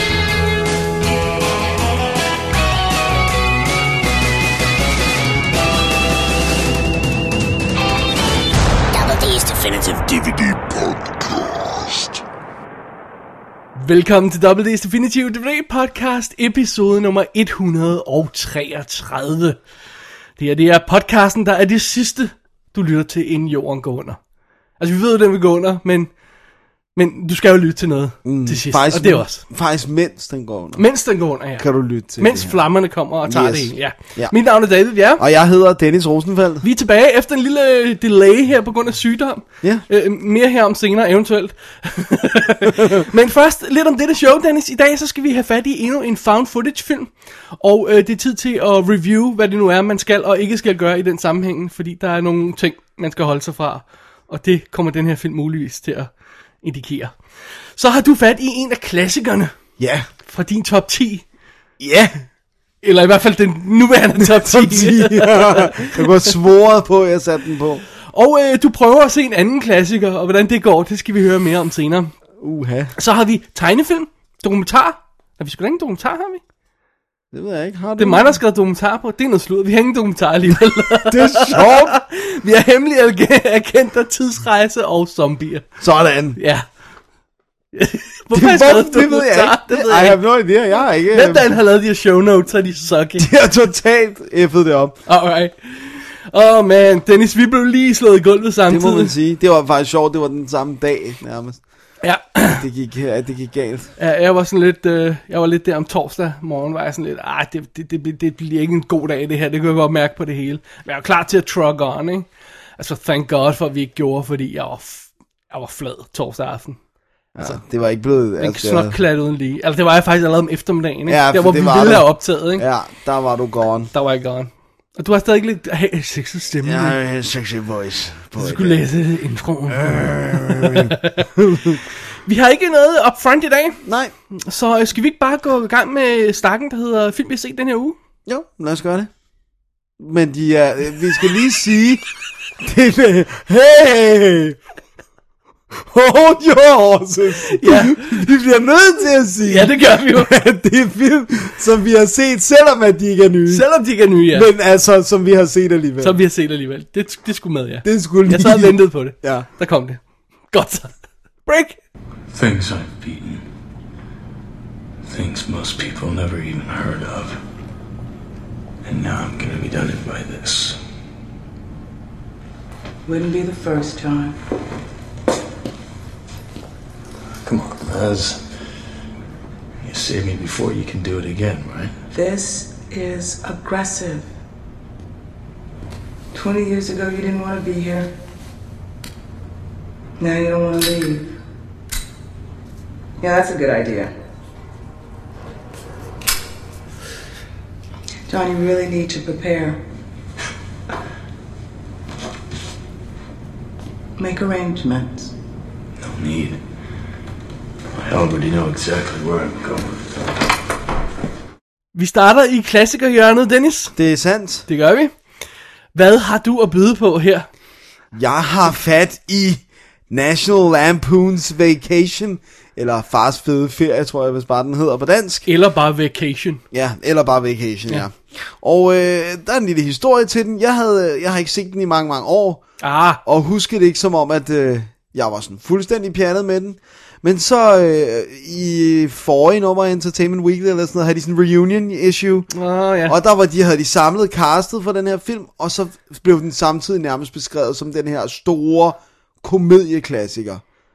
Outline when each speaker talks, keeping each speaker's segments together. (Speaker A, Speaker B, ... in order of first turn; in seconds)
Speaker A: 8.9-12.2
Speaker B: 13.8-19.6, 20.4-24.2, 24.8-26.1, 26.9-29.4, 30.8-35.2, 36.6-59.6, 60.2-61.2, 62.8-66.3, 68.1-72.1, 73.0-76.4, 78.0-85.7, 86.3-86.7, 87.7-90.2, 91.1-93.3, 95.0-99.1, 102.0-102.6, 104.0-116.8, 118.4-122.7, 123.9-127.0, 128.4-131.3, 132.2-133.8, 134.4-137.9, 147.5-148.1, 149.4-150.3, 153.5-154.5, 156.0-161.8, 211.9-213.9, 214.7-215.2, 215.9-217.5, 225.4-226.6, 232.8-233.2, 242.5-243.2
Speaker C: 28.2-32.6, 33.2-34.5, 35.1-36.6, 59.8-60.1, 61.8-62.2, 64.2-67.8, 72.4-72.9, 77.3-78.3, 81.0-82.0, 85.8-86.4, 88.3-91.5, 93.2-95.0, 98.7-101.6, 102.5-103.9, 117.3-119.0, 121.1-123.9, 126.6-128.8, 129.7-131.8, 133.8-134.1, 138.2-139.1, 140.0-142.0, 142.6-144.6, 145.7-153.7, 154.2-156.2, 157.8-159.5, 213.9-214.7, 218.1-225.4, 226.7-232.7, 233.2-242.5, 243.1-250.6
Speaker D: 162.3-163.4, 165.0-167.4, 168.8-170.8, 177.4-178.6, 179.8-181.9, 206.0-206.6, 207.9-210.1
Speaker E: 173.1-174.3, 182.2-184.2, 186.3-188.1, 190.2-191.2, 193.2-194.1, 198.3-199.8, 204.2-205.2